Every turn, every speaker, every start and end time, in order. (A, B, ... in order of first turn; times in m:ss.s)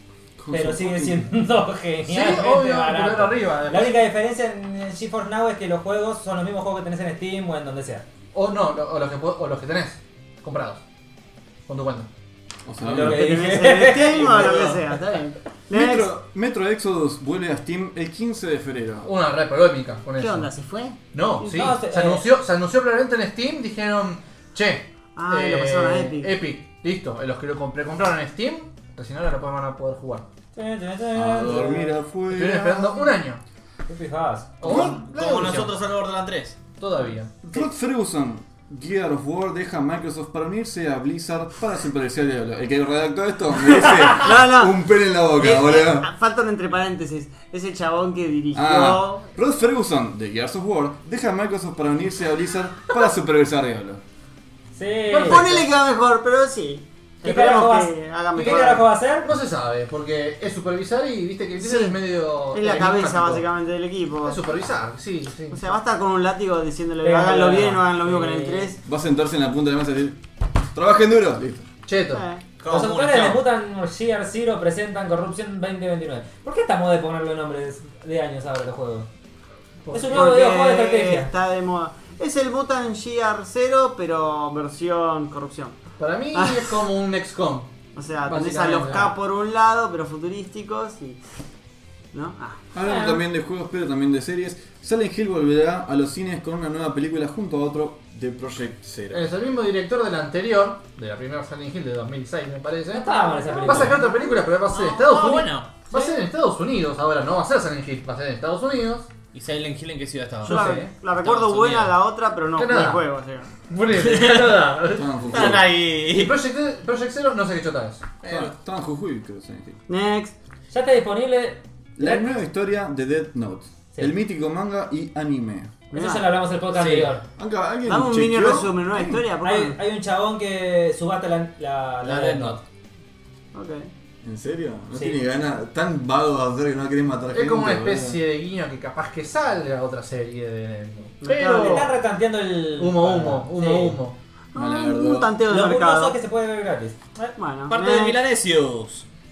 0:00.4-0:01.3 A
0:00.5-0:08.1 B
0:02.1-0:04.0 C
0:08.3-0:10.8 C
0:11.7-0:12.1 C
0:12.7-0:13.3 A
0:12.8-0:14.8 B
0:12.9-0:16.1 D
0:14.2-0:14.8 E
0:15.7-0:19.1 A
0:19.0-0:20.5 C
0:20.2-0:21.0 D
0:21.1-0:30.2 C
0:21.4-0:22.3 B
0:25.2-0:26.3 D
0:30.5-0:32.0 B
0:31.1-0:33.1 A
0:32.3-0:33.4 C
0:33.9-0:34.8 B
0:34.6-0:35.8 C
0:34.6-0:36.6 E
0:34.7-0:35.0 A
0:36.8-0:37.3 C
0:37.4-0:46.1 A
0:44.1-0:44.8 D
0:45.4-0:49.3 D
0:48.5-0:54.0 A
0:54.7-0:55.5 B
0:55.1-0:55.7 C
0:55.2-0:58.8 D
0:57.2-0:59.3 B
0:59.2-1:03.4 C
1:01.6-1:02.0 D
1:02.5-1:04.6 D
1:04.3-1:05.7 C
1:05.5-1:08.8 D
1:07.0-1:08.8 B
1:08.8-1:10.2 A
1:10.7-1:11.7 A
1:11.9-1:12.2 C
1:12.1-1:12.4 D
1:12.6-1:13.4 E
1:12.7-1:19.1 B
1:19.9-1:20.4 C
1:19.9-1:21.3 B
1:20.1-1:25.8 D
1:26.0-1:27.7 C
1:26.3-1:26.7 D
1:28.0-1:31.2 D
1:28.3-1:29.2 C
1:32.1-1:32.6 D
1:32.7-1:39.3 A
1:32.8-1:33.2 B
1:39.1-1:49.1 C
1:42.9-1:44.0 B
1:43.3-1:44.1 D
1:44.7-1:46.0 E
1:49.3-1:52.0 E
1:50.4-1:50.9 C
1:50.4-1:53.5 D
1:52.6-1:53.0 C
1:53.7-1:55.6 C
1:53.9-1:54.7 E
1:54.9-1:55.8 A
1:55.3-1:56.4 E
1:56.1-1:58.1 C
1:58.2-1:58.5 E
1:58.2-1:59.8 A
1:59.9-2:00.3 D
2:00.7-2:02.3 B
2:02.0-2:05.8 A
2:05.9-2:06.4 D
2:05.9-2:07.2 B
2:06.7-2:07.1 E
2:07.4-2:09.2 A
2:07.9-2:09.8 D
2:09.4-2:12.6 B
2:12.0-2:12.5 C
2:13.5-2:13.9 D
2:14.2-2:18.2 A
2:14.9-2:15.2 B
2:17.3-2:21.9 C
2:21.2-2:21.9 D
2:21.6-2:24.0 B
2:22.8-2:24.2 C
2:24.5-2:26.2 D
2:24.6-2:25.4 A
2:25.5-2:27.4 B
2:27.4-2:28.2 D
2:27.7-2:29.1 E